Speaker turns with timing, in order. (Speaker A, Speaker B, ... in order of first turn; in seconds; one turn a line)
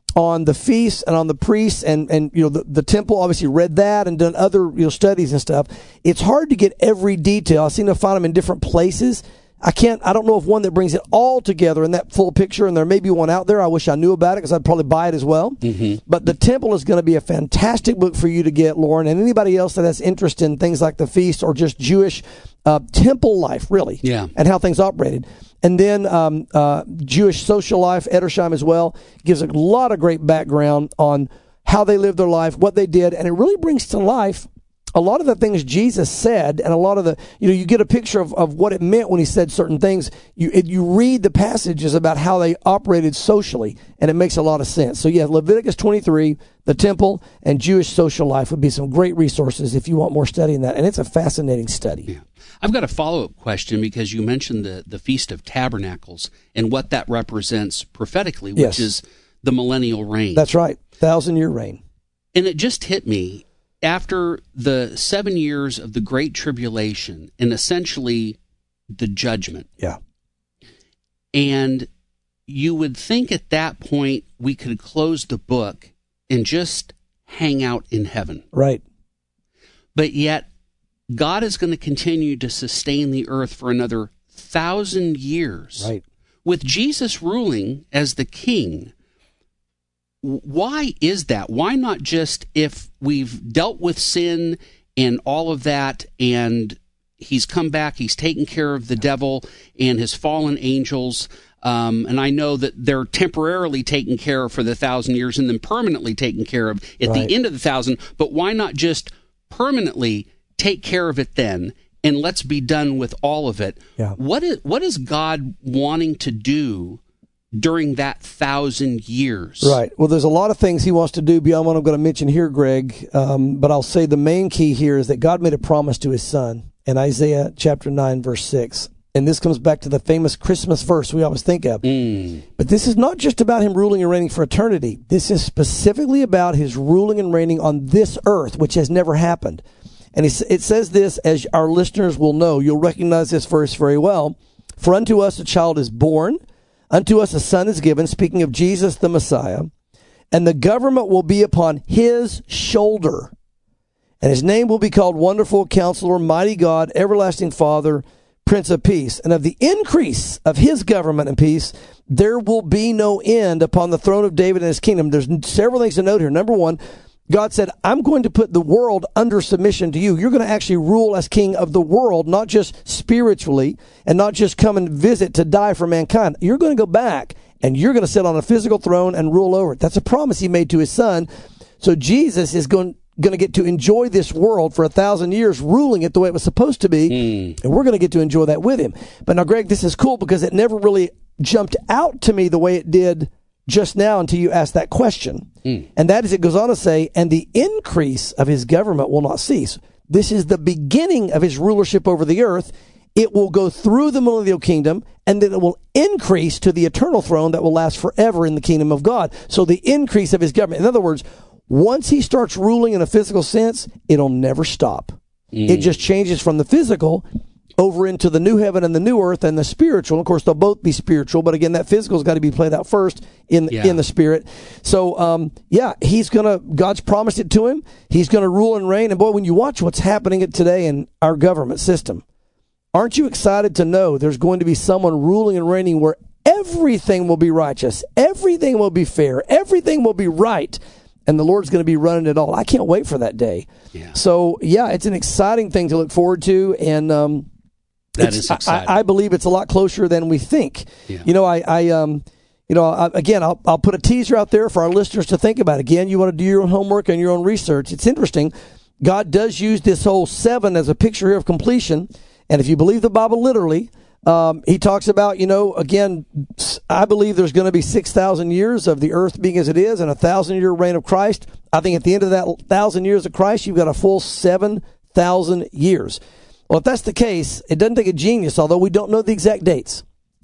Speaker A: 0.2-52.1
Speaker B: 15.6-16.0
Speaker B: 24.0-24.3
Speaker B: 52.1-60.5
Speaker A: 58.6-58.9
Speaker A: 60.4-61.8
Speaker B: 62.3-68.4
Speaker B: 68.9-69.7
Speaker B: 71.3-71.9
Speaker B: 72.5-78.5
Speaker A: 78.5-78.8
Speaker B: 80.0-80.5
Speaker B: 81.1-85.9
Speaker B: 86.5-88.9
Speaker B: 90.2-117.0
Speaker A: 107.0-107.3
Speaker B: 117.5-119.8
Speaker A: 119.6-131.9
Speaker B: 131.8-132.4
Speaker A: 132.6-139.6
Speaker A: 140.1-149.7
Speaker A: 150.3-153.3
Speaker A: 154.2-181.3
Speaker A: 181.8-215.2
Speaker B: 187.1-187.6
Speaker B: 215.5-215.9
Speaker A: 215.7-217.3
Speaker A: 217.8-232.2
Speaker B: 223.7-224.0
Speaker A: 232.9-247.5
Speaker B: 248.2-249.0
Speaker A: 248.2-280.0